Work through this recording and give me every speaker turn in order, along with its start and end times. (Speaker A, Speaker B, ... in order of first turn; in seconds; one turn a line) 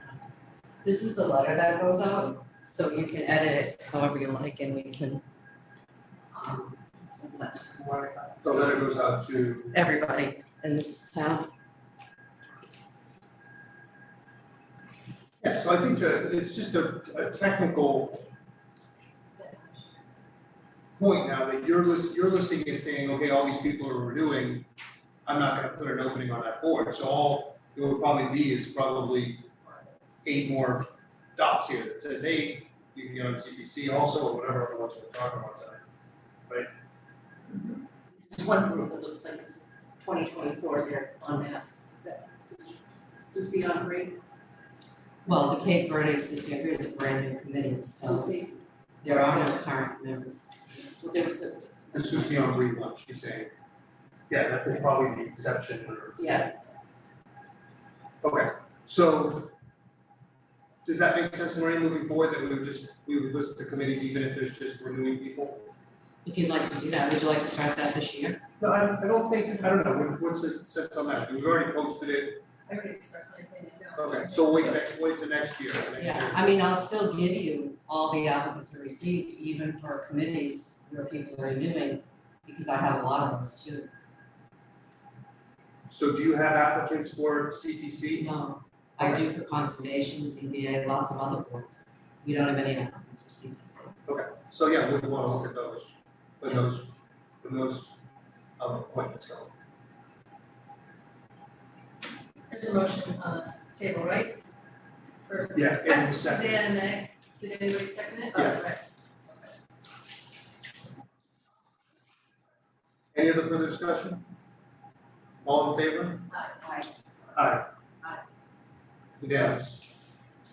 Speaker A: 0.8-5.2
Speaker A: 6.3-8.7
Speaker B: 8.4-9.8
Speaker A: 9.7-11.5
Speaker B: 15.4-18.3
Speaker C: 19.4-19.9
Speaker B: 20.9-24.7
Speaker B: 25.2-29.5
Speaker B: 30.2-35.8
Speaker D: 37.5-44.2
Speaker A: 45.2-48.3
Speaker D: 48.0-48.6
Speaker A: 49.0-50.5
Speaker D: 51.0-52.5
Speaker B: 51.9-53.5
Speaker B: 54.3-56.3
Speaker D: 56.1-56.5
Speaker B: 58.2-59.5
Speaker B: 60.8-65.7
Speaker A: 66.2-68.4
Speaker B: 68.6-72.4
Speaker C: 72.7-74.8
Speaker B: 74.0-76.4
Speaker A: 76.0-83.9
Speaker B: 85.9-88.3
Speaker A: 88.2-94.0
Speaker B: 89.0-89.2
Speaker B: 94.0-98.0
Speaker B: 98.6-99.5
Speaker C: 102.5-104.4
Speaker C: 105.3-108.8
Speaker B: 105.5-106.7
Speaker B: 108.3-108.6
Speaker B: 113.1-114.2
Speaker B: 115.4-116.3
Speaker C: 116.3-116.6
Speaker D: 116.6-116.9
Speaker B: 117.3-117.7
Speaker B: 119.2-119.8